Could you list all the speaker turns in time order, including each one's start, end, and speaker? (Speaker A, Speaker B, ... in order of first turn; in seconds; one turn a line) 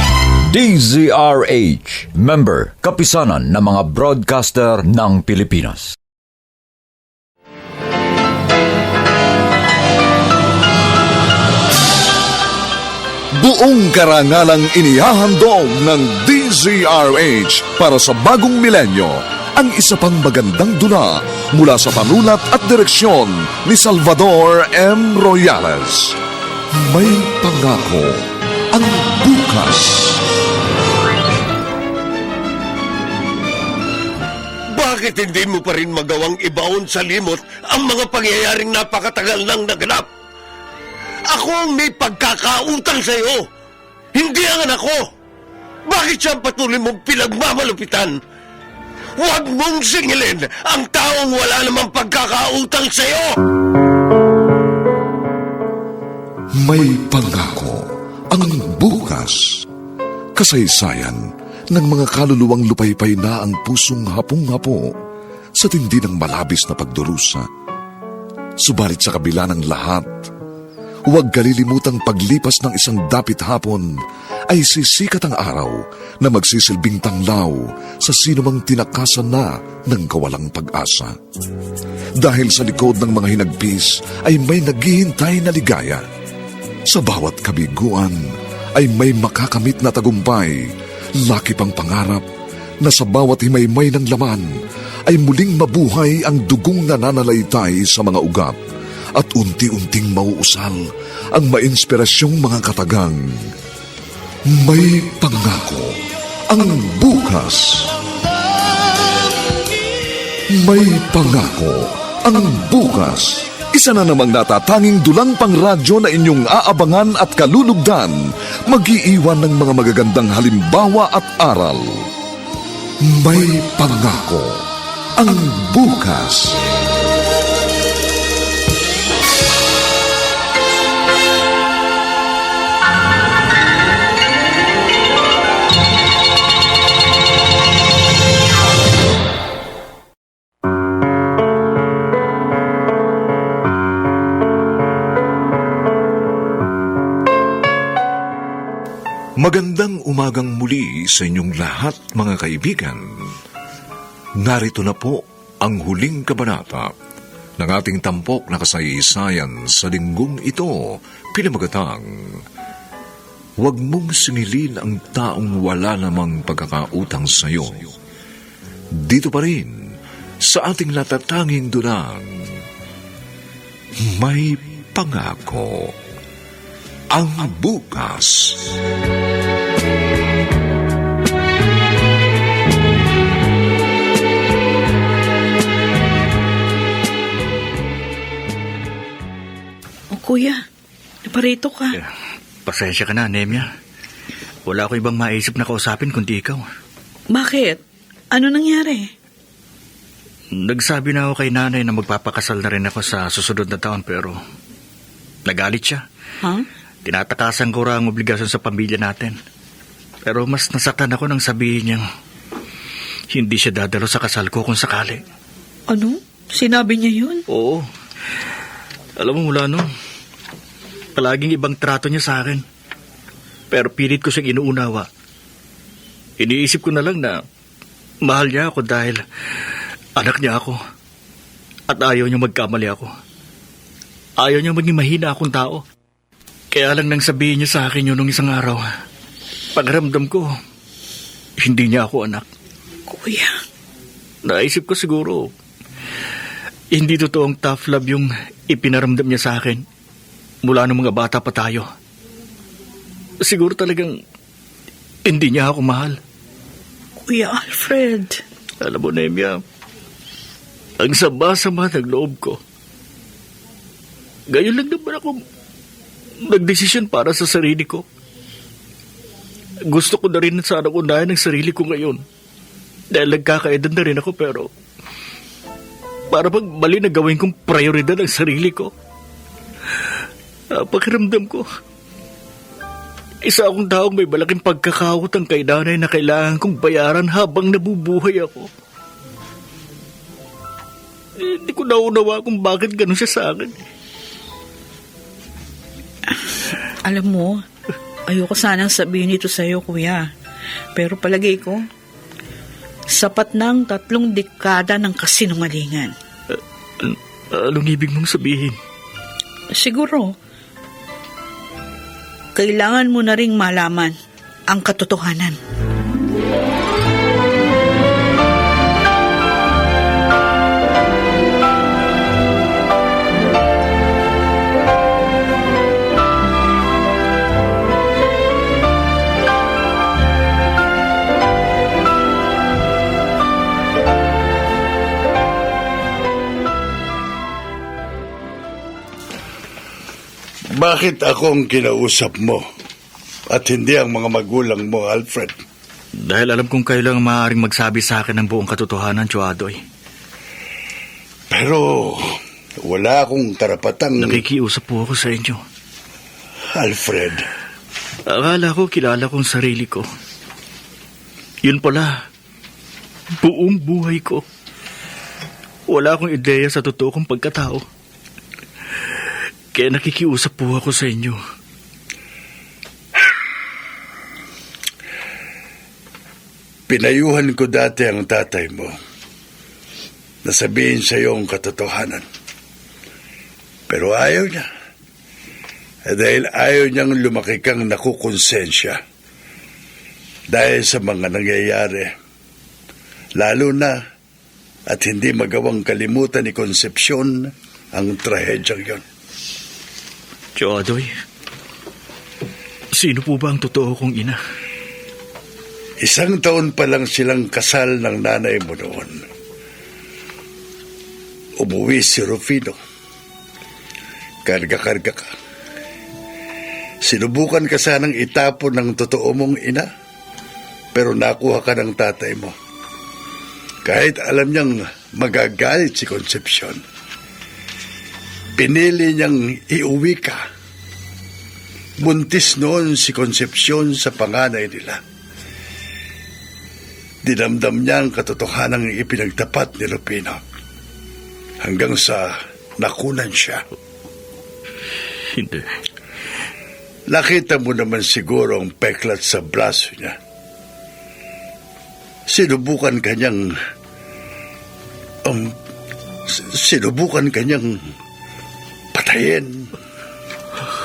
Speaker A: 0.5-5.9
Speaker B: 13.3-26.2
Speaker B: 26.7-30.2
Speaker C: 34.7-40.1
Speaker C: 41.3-43.5
Speaker C: 44.1-45.0
Speaker C: 45.9-48.1
Speaker C: 49.2-53.4
Speaker B: 56.6-59.6
Speaker B: 60.4-64.9
Speaker B: 65.5-67.5
Speaker B: 68.6-70.3
Speaker B: 71.1-74.0
Speaker B: 74.5-81.2
Speaker B: 82.2-86.0
Speaker B: 86.9-90.7
Speaker B: 91.2-92.2
Speaker B: 92.8-94.5
Speaker B: 95.1-98.6
Speaker B: 99.2-103.5
Speaker B: 104.5-106.0
Speaker B: 106.5-107.9
Speaker B: 110.5-122.1
Speaker B: 123.0-124.7
Speaker B: 125.2-126.6
Speaker B: 149.4-153.3
Speaker B: 154.4-156.9
Speaker B: 157.6-162.4
Speaker B: 163.6-167.9
Speaker B: 168.9-169.8
Speaker B: 170.4-172.4
Speaker B: 174.0-175.9
Speaker B: 177.1-178.8
Speaker D: 190.1-190.6
Speaker D: 191.2-192.0
Speaker E: 192.7-193.7
Speaker E: 194.7-196.6
Speaker D: 197.3-197.8
Speaker D: 198.3-199.1
Speaker E: 200.5-204.4
Speaker E: 205.5-206.0
Speaker E: 207.0-209.4
Speaker E: 210.2-212.0
Speaker E: 213.3-215.2
Speaker D: 215.9-217.4
Speaker E: 217.5-217.9
Speaker E: 219.2-219.8
Speaker E: 221.2-222.6
Speaker E: 223.7-225.1
Speaker E: 226.4-227.4
Speaker E: 228.2-229.2
Speaker E: 230.2-230.8
Speaker E: 231.9-233.1
Speaker E: 234.4-235.8
Speaker E: 236.7-238.8
Speaker E: 239.7-240.5
Speaker E: 241.6-242.4
Speaker D: 243.1-243.5
Speaker E: 244.4-245.5
Speaker E: 246.9-249.8
Speaker E: 250.6-251.9
Speaker E: 253.4-254.2
Speaker E: 255.2-256.2
Speaker D: 257.3-258.4
Speaker E: 258.8-259.6
Speaker E: 261.0-262.6
Speaker E: 264.5-265.4
Speaker E: 266.5-268.0
Speaker E: 269.9-272.2
Speaker E: 273.1-274.7
Speaker E: 276.3-278.9
Speaker E: 280.7-281.7
Speaker E: 283.4-288.7
Speaker E: 291.4-293.8
Speaker D: 296.3-297.6
Speaker D: 298.3-300.3
Speaker D: 300.9-301.8
Speaker D: 303.1-306.1
Speaker E: 306.5-308.8
Speaker D: 309.8-310.3
Speaker D: 312.6-314.1
Speaker D: 314.7-315.6
Speaker F: 340.7-342.6
Speaker F: 343.5-345.6
Speaker E: 346.2-349.8
Speaker F: 351.5-352.3
Speaker F: 352.8-354.4
Speaker E: 354.2-355.6
Speaker F: 356.7-357.4
Speaker E: 358.3-360.1
Speaker E: 361.6-362.2
Speaker E: 363.4-364.4
Speaker E: 365.9-367.8
Speaker E: 369.7-371.4
Speaker F: 376.9-378.9
Speaker F: 380.4-382.2
Speaker F: 383.9-384.6
Speaker F: 386.1-389.0
Speaker F: 390.5-392.1
Speaker F: 393.4-394.0
Speaker F: 394.9-399.0
Speaker E: 400.6-401.1
Speaker E: 402.9-404.4
Speaker F: 406.0-409.2
Speaker F: 411.6-412.8
Speaker F: 414.4-415.3
Speaker F: 417.0-419.9
Speaker F: 420.9-422.5
Speaker F: 423.8-426.8
Speaker F: 428.6-430.4
Speaker F: 432.0-435.0
Speaker F: 437.2-440.4
Speaker F: 441.6-443.6
Speaker E: 445.3-445.8
Speaker F: 447.1-450.2
Speaker F: 452.3-453.6
Speaker F: 455.2-455.6
Speaker F: 456.3-457.9
Speaker F: 458.9-459.7